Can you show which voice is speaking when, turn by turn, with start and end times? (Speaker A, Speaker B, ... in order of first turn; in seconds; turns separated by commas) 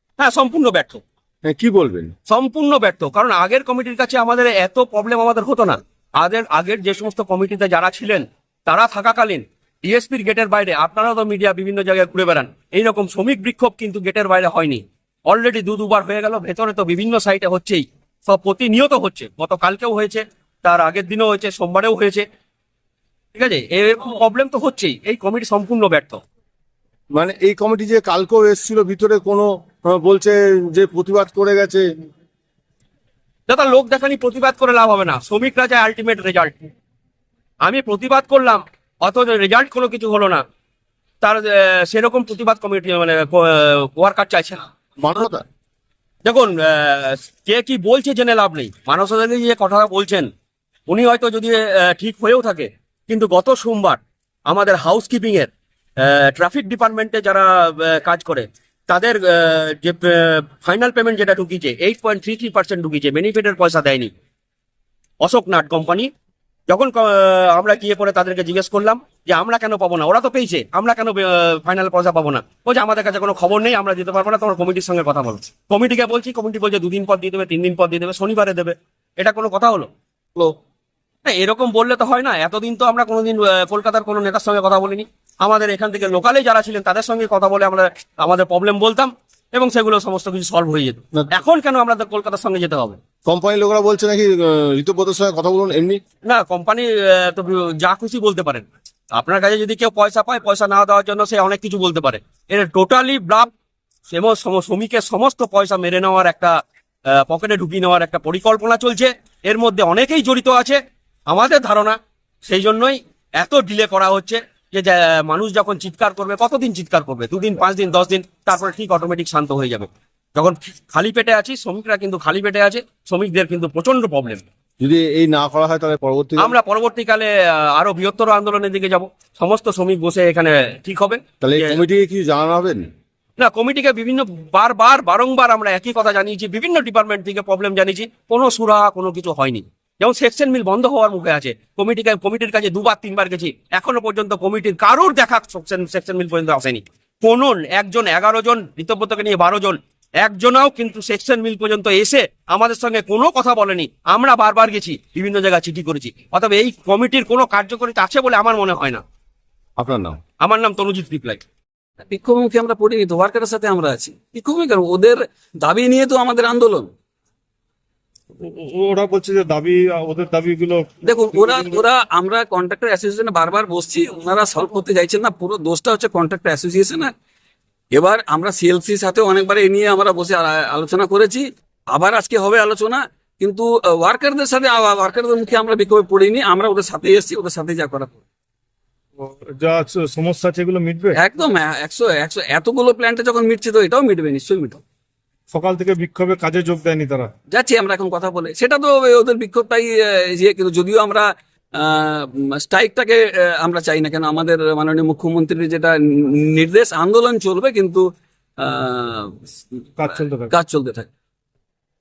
Speaker A: 0.2-1.0, Speaker B: 1.4-2.1, Speaker A: 2.3-22.2, Speaker A: 23.4-26.2, Speaker B: 27.1-31.9, Speaker A: 33.5-36.6, Speaker A: 37.6-40.4, Speaker A: 41.2-44.6, Speaker B: 45.0-45.4, Speaker A: 46.2-50.3, Speaker A: 50.9-64.1, Speaker A: 65.2-66.1, Speaker A: 66.7-80.5, Speaker A: 81.2-93.0, Speaker B: 93.3-96.0, Speaker A: 96.2-103.5, Speaker A: 104.1-106.6, Speaker A: 107.1-124.4, Speaker B: 124.8-126.5, Speaker A: 126.4-131.8, Speaker B: 131.4-132.9, Speaker A: 133.4-159.0, Speaker B: 159.8-160.2, Speaker A: 160.4-161.4, Speaker C: 162.0-166.9, Speaker D: 168.4-171.8, Speaker C: 171.0-177.1, Speaker C: 177.9-188.2, Speaker D: 189.2-191.2, Speaker C: 191.2-194.8, Speaker D: 195.5-197.3, Speaker C: 197.5-208.1, Speaker C: 208.6-209.4, Speaker D: 210.0-210.5, Speaker C: 210.5-211.1